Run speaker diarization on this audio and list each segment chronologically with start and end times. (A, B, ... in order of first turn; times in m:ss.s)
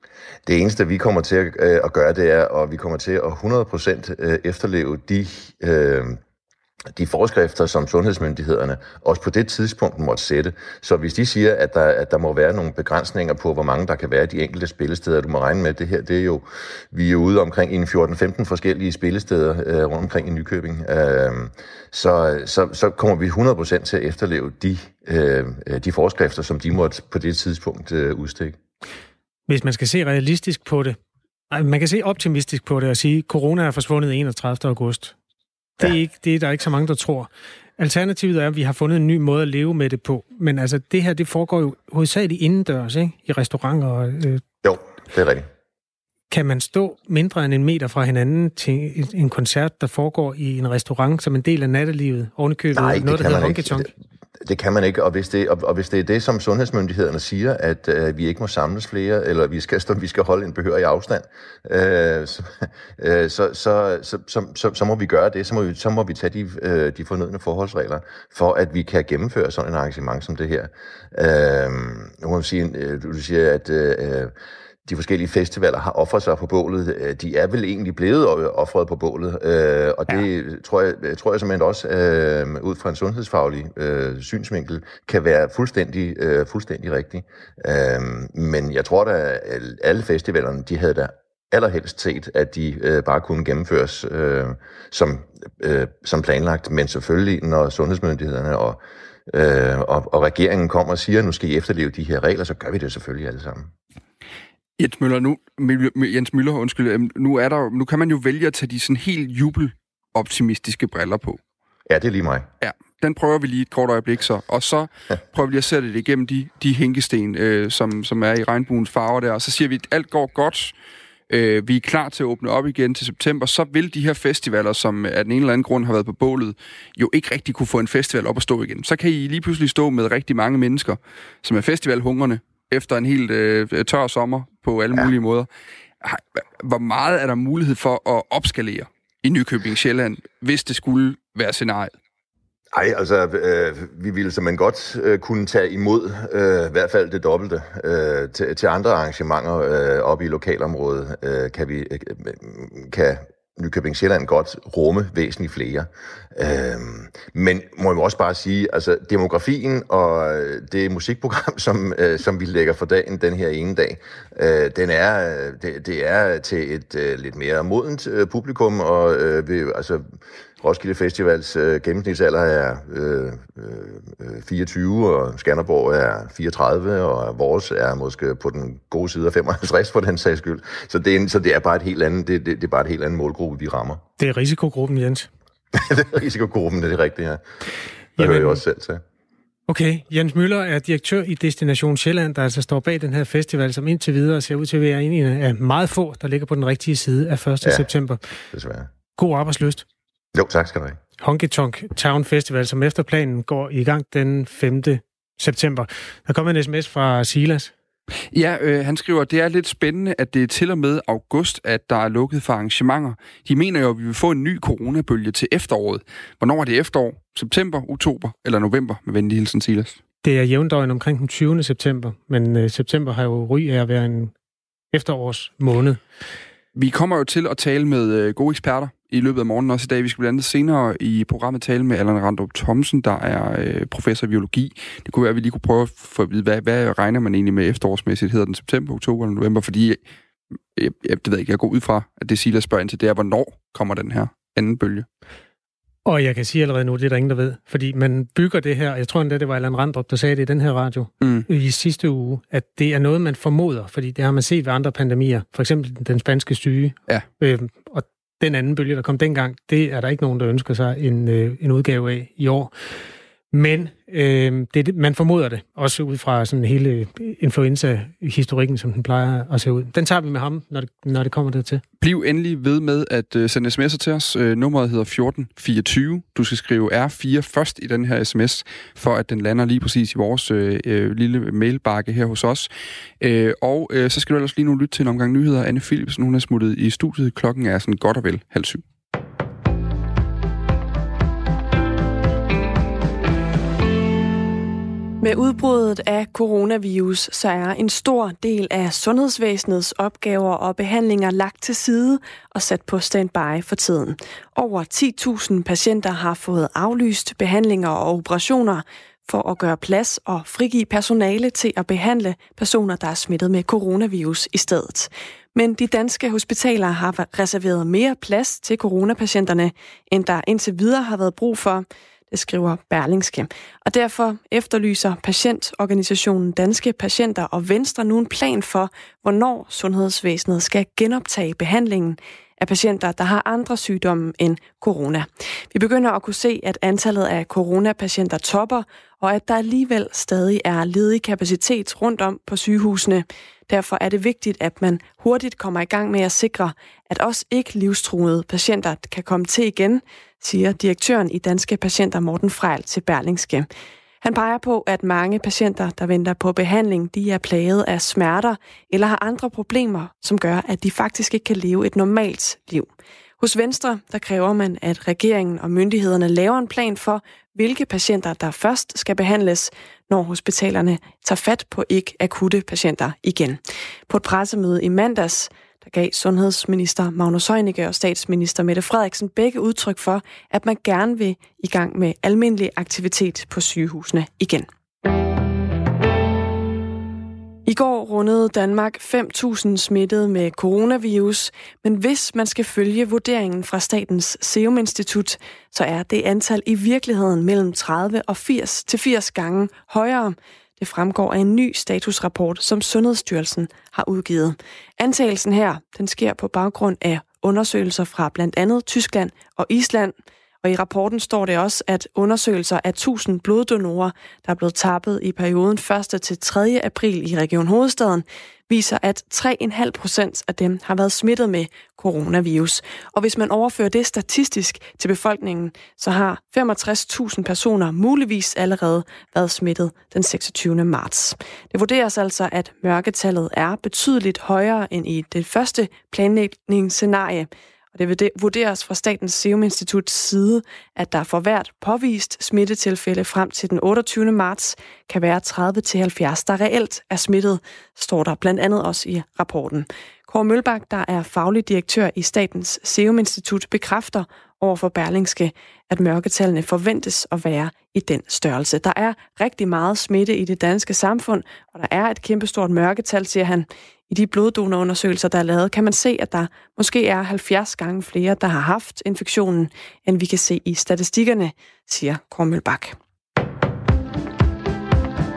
0:00.5-0:06.2 A
0:06.9-0:28.6 A
0:29.5-0:31.0 B
0:31.5-0:35.2 B
0:35.8-0:44.4 B
0:44.6-0:45.5 A
0:46.3-0:53.9 B
0:52.7-1:14.3 A
1:14.9-1:43.7 A
1:44.8-1:51.4 C
1:51.9-1:52.5 A
1:52.6-2:00.7 C
2:01.3-2:15.5 C
2:16.0-2:21.9 C
2:22.7-2:50.1 A
2:50.6-3:04.0 A
3:04.2-3:05.3 B
3:05.7-3:07.4 A
3:08.2-3:08.6 B
3:08.2-3:09.0 A
3:09.7-3:18.2 B
3:18.5-3:18.9 A
3:19.2-3:19.8 B
3:20.3-3:21.0 A
3:21.2-3:27.7 B
3:28.3-3:40.0 C
3:40.2-3:44.3 B
3:44.9-3:46.0 B
3:46.8-4:00.0 C
4:00.8-4:05.1 C
4:06.1-4:22.7 B
4:11.2-4:11.5 C
4:23.5-4:31.8 B
4:32.0-4:48.8 C
4:55.2-5:53.7 D
5:54.2-6:24.7 D
6:27.7-7:53.0 D